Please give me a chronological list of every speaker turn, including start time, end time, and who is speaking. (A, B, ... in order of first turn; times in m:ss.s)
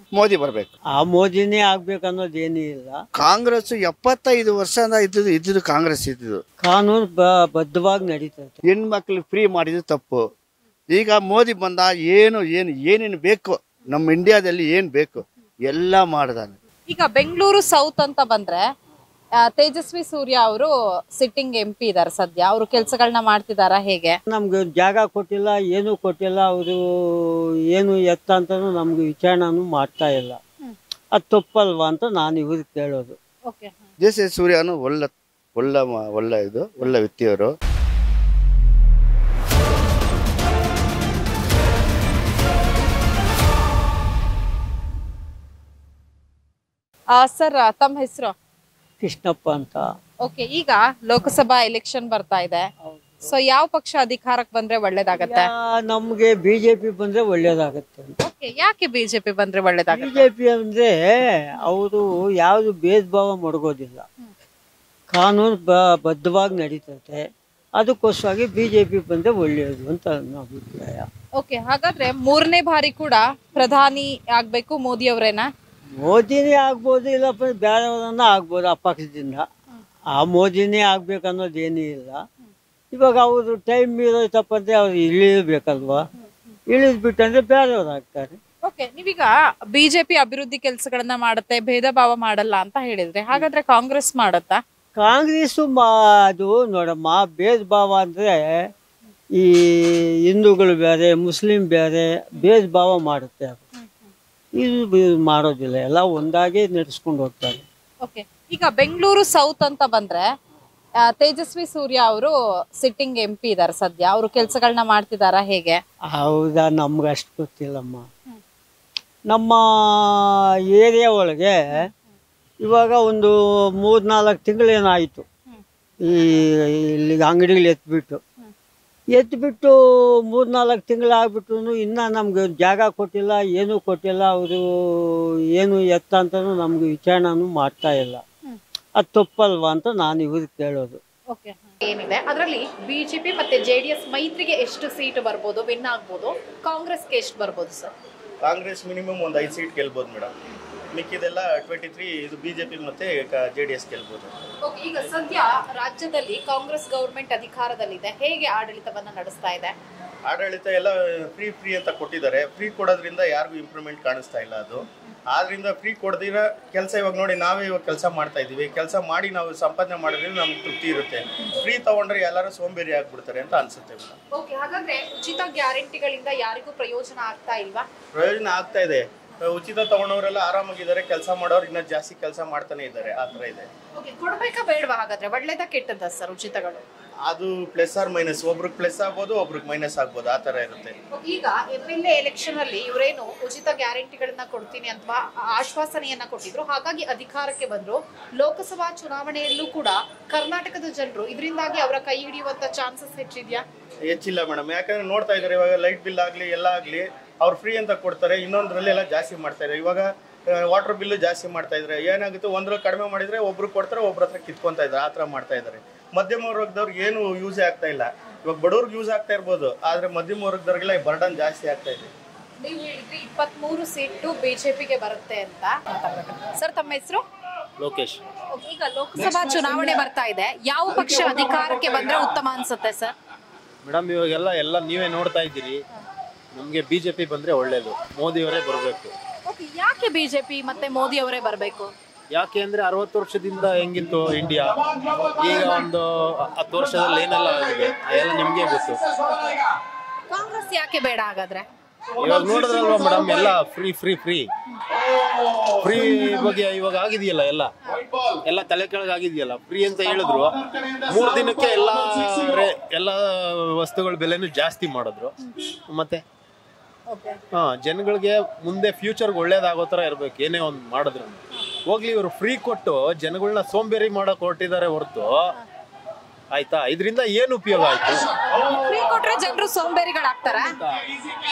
0:00.2-0:00.7 A
0:01.0-0:03.0 B
0:03.2-0:06.4 A
0:06.6-0:08.6 B
0:08.6-0:10.2 A
0:10.9-0:16.6 A
0:16.9-0:18.6 C
0:19.4-0:24.1 C
0:24.3-0:30.4 B
0:31.1-0:33.2 B
0:33.5-0:33.8 C
0:34.0-0:37.5 A
0:47.1-0:48.3 C
0:49.0-0:49.8 B
0:50.2-0:52.6 C
0:52.8-0:53.2 B
0:53.2-0:55.5 C
0:55.1-0:58.1 B
0:58.2-1:00.2 C
0:59.9-1:04.1 B
1:05.1-1:11.1 B
1:11.4-1:15.5 C
1:16.0-1:19.5 B
1:20.1-1:22.2 B
1:22.9-1:26.0 B
1:26.7-1:28.4 B
1:28.6-1:34.6 C
1:35.0-1:38.7 B
1:39.4-1:43.6 B
1:44.6-1:47.6 B
1:48.0-1:50.2 C
1:51.0-1:55.8 C
1:56.1-1:58.1 B
1:59.3-2:01.9 B
2:02.6-2:05.2 B
2:06.0-2:08.2 B
2:09.1-2:18.2 B
2:19.0-2:21.0 B
2:21.3-2:27.9 C
2:28.4-2:30.3 D
2:30.9-2:34.4 D
2:34.6-2:39.7 C
2:40.3-2:54.2 D
2:54.3-2:57.8 C
2:58.1-3:03.7 D
3:03.9-3:06.8 C
3:07.3-3:10.9 D
3:11.1-3:23.6 C
3:24.1-3:42.1 D
3:42.6-3:47.2 C
3:47.8-3:48.2 E
3:48.5-3:53.1 C
3:53.8-3:55.8 E
3:56.5-3:59.1 E
3:59.5-4:01.9 C
4:02.3-4:09.1 E
4:10.3-4:11.6 C
4:12.2-4:14.5 E
4:15.8-4:17.7 E
4:18.4-4:25.4 E
4:25.9-4:26.2 E
4:27.1-4:27.4 C
4:27.5-4:35.3 E
4:36.5-4:38.4 E
4:38.6-4:40.8 C